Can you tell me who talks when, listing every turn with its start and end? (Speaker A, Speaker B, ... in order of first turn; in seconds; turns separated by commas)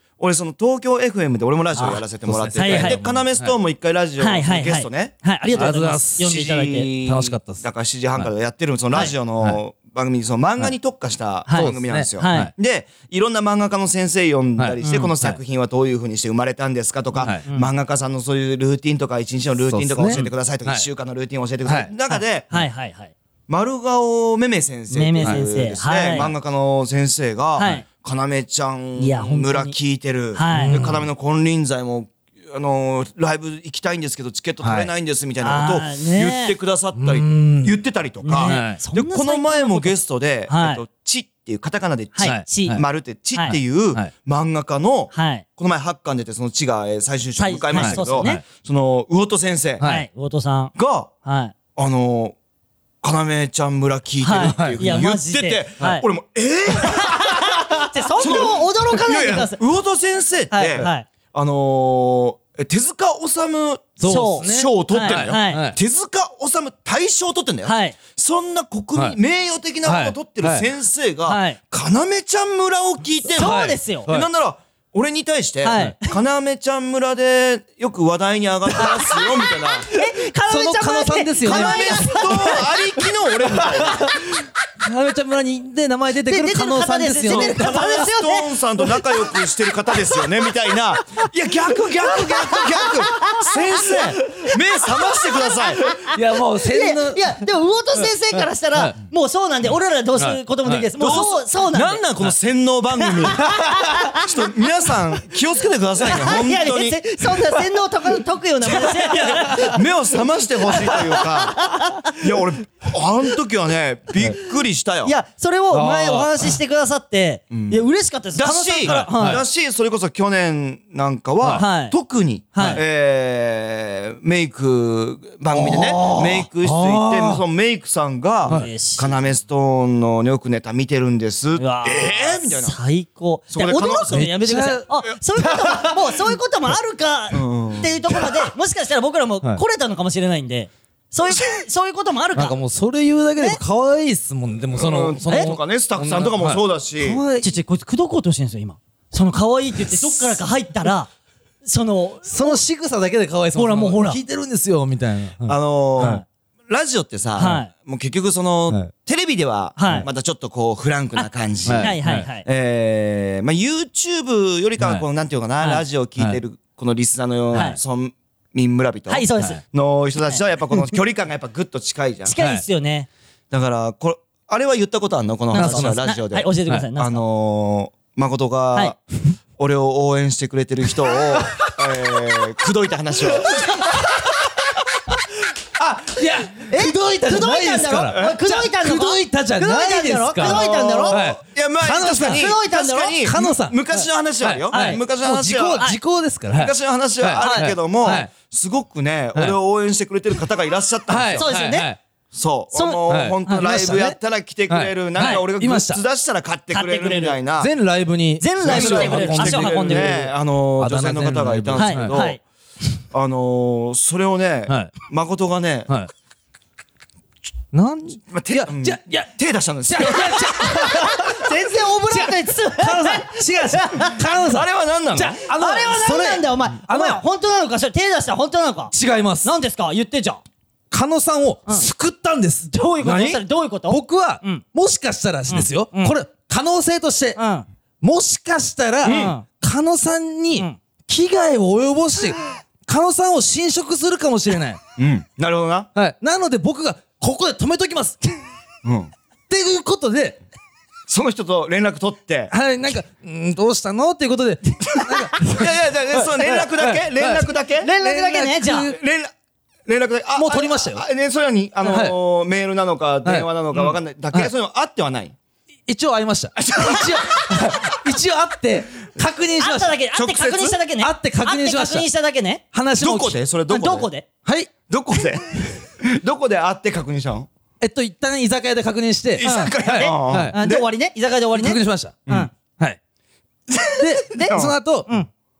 Speaker A: 0.2-5.2, Speaker B: 1.8-2.0, Speaker C: 2.2-3.5, Speaker B: 2.6-3.0, Speaker B: 4.2-6.9, Speaker C: 5.5-6.4, Speaker A: 6.2-22.5, Speaker C: 7.0-8.3, Speaker B: 11.5-12.5, Speaker C: 11.6-12.5, Speaker C: 14.6-15.4, Speaker B: 14.8-15.1, Speaker C: 17.2-17.4, Speaker C: 19.7-20.9, Speaker C: 21.6-21.9, Speaker B: 22.1-23.1, Speaker A: 23.5-49.8, Speaker B: 24.9-26.3, Speaker B: 27.6-27.8, Speaker B: 29.0-29.8, Speaker B: 30.3-30.8, Speaker C: 30.5-31.0, Speaker C: 34.6-34.9, Speaker B: 35.4-36.5, Speaker C: 37.0-37.8, Speaker B: 38.2-40.0, Speaker C: 38.4-38.8, Speaker B: 40.5-40.8, Speaker B: 42.1-42.8, Speaker C: 42.2-42.8, Speaker B: 45.1-45.5, Speaker B: 47.4-48.4, Speaker C: 47.7-48.4, Speaker C: 49.8-50.1, Speaker B: 49.8-50.7, Speaker A: 50.8-51.1, Speaker B: 51.2-51.5, Speaker A: 51.8-52.4, Speaker A: 53.0-57.6, Speaker B: 54.2-56.0, Speaker C: 54.4-54.9, Speaker B: 56.8-59.6, Speaker A: 58.2-79.9, Speaker B: 60.5-61.1, Speaker C: 64.0-65.8, Speaker B: 64.0-65.6, Speaker B: 67.7-68.0, Speaker C: 69.8-70.7, Speaker B: 71.3-71.6, Speaker B: 73.3-74.1, Speaker C: 73.4-74.3, Speaker B: 75.6-76.1, Speaker B: 78.8-82.7, Speaker C: 80.5-82.5, Speaker A: 81.4-84.1, Speaker C: 83.6-84.3, Speaker C: 84.8-88.0, Speaker B: 86.3-88.5, Speaker A: 87.2-95.8, Speaker B: 92.1-94.5, Speaker B: 95.0-102.0, Speaker C: 96.0-97.4, Speaker C: 98.3-98.9, Speaker C: 100.2-100.9, Speaker A: 101.0-107.0, Speaker B: 103.0-104.3, Speaker B: 106.0-109.8, Speaker A: 108.8-115.1, Speaker B: 110.8-112.2, Speaker B: 115.0-119.4, Speaker C: 115.7-116.6, Speaker A: 117.5-117.8, Speaker A: 118.3-132.8, Speaker C: 118.8-119.4, Speaker B: 121.6-122.0, Speaker B: 122.5-122.8, Speaker B: 125.6-126.5, Speaker C: 125.7-127.4, Speaker B: 128.5-129.1, Speaker B: 131.6-142.6, Speaker A: 133.5-134.3, Speaker C: 134.1-136.3, Speaker A: 137.3-138.0, Speaker C: 142.4-147.5, Speaker A: 144.7-147.2, Speaker B: 147.4-151.1, Speaker C: 149.8-150.4, Speaker B: 151.6-152.6, Speaker C: 152.2-156.2, Speaker B: 153.6-154.2, Speaker A: 155.5-172.3, Speaker B: 157.4-157.7, Speaker B: 159.8-160.1, Speaker B: 161.2-162.5, Speaker C: 161.7-162.3, Speaker C: 164.8-165.1, Speaker B: 167.5-167.8, Speaker B: 169.1-169.6, Speaker B: 170.3-170.8, Speaker B: 172.2-173.1, Speaker C: 172.4-172.6, Speaker A: 173.5-179.0, Speaker C: 175.5-176.1, Speaker B: 175.5-177.2, Speaker A: 179.6-183.8, Speaker C: 181.3-182.0, Speaker C: 183.3-184.8, Speaker C: 185.8-192.5, Speaker B: 186.7-191.2, Speaker A: 188.1-188.4, Speaker A: 190.4-195.9, Speaker B: 192.1-193.2, Speaker C: 193.2-198.3, Speaker B: 194.7-195.0, Speaker A: 196.5-201.6, Speaker B: 197.4-197.7, Speaker C: 201.1-202.0, Speaker B: 201.4-201.9, Speaker A: 202.3-207.7, Speaker B: 202.7-203.7, Speaker C: 203.1-204.2, Speaker C: 204.7-206.0, Speaker B: 205.2-205.4, Speaker B: 206.7-207.4, Speaker C: 207.6-210.2, Speaker B: 208.4-210.3, Speaker A: 208.6-212.4, Speaker C: 210.8-212.3, Speaker B: 211.8-212.4, Speaker A: 213.1-215.9, Speaker C: 214.7-214.9, Speaker C: 217.7-219.3, Speaker A: 218.2-220.6, Speaker C: 219.9-227.2, Speaker B: 220.4-224.2, Speaker A: 224.4-225.4, Speaker B: 225.2-230.4, Speaker C: 228.9-229.5, Speaker C: 230.9-237.4, Speaker B: 232.7-234.6, Speaker B: 235.5-236.2, Speaker B: 237.4-237.7, Speaker C: 238.0-244.8, Speaker A: 239.0-239.3, Speaker B: 239.1-239.4, Speaker A: 245.0-245.9, Speaker C: 246.0-248.3, Speaker A: 248.8-249.1, Speaker C: 249.5-250.4, Speaker A: 251.1-252.5, Speaker C: 252.5-257.5, Speaker A: 255.3-257.9, Speaker B: 257.8-258.9, Speaker C: 258.0-259.0, Speaker A: 258.8-259.3, Speaker A: 259.9-265.4, Speaker C: 260.4-261.0, Speaker C: 261.9-262.1, Speaker C: 263.2-264.5, Speaker C: 265.9-269.9, Speaker A: 266.6-267.8, Speaker B: 269.6-272.6, Speaker A: 270.1-270.8, Speaker C: 271.0-272.1, Speaker C: 272.7-273.4, Speaker A: 273.0-274.1, Speaker B: 273.7-274.3, Speaker C: 274.4-274.7, Speaker A: 274.9-277.5, Speaker C: 277.8-280.6, Speaker A: 279.4-280.9, Speaker B: 279.4-282.5, Speaker C: 281.5-283.0, Speaker A: 283.7-284.8, Speaker C: 284.0-285.1, Speaker B: 284.3-285.3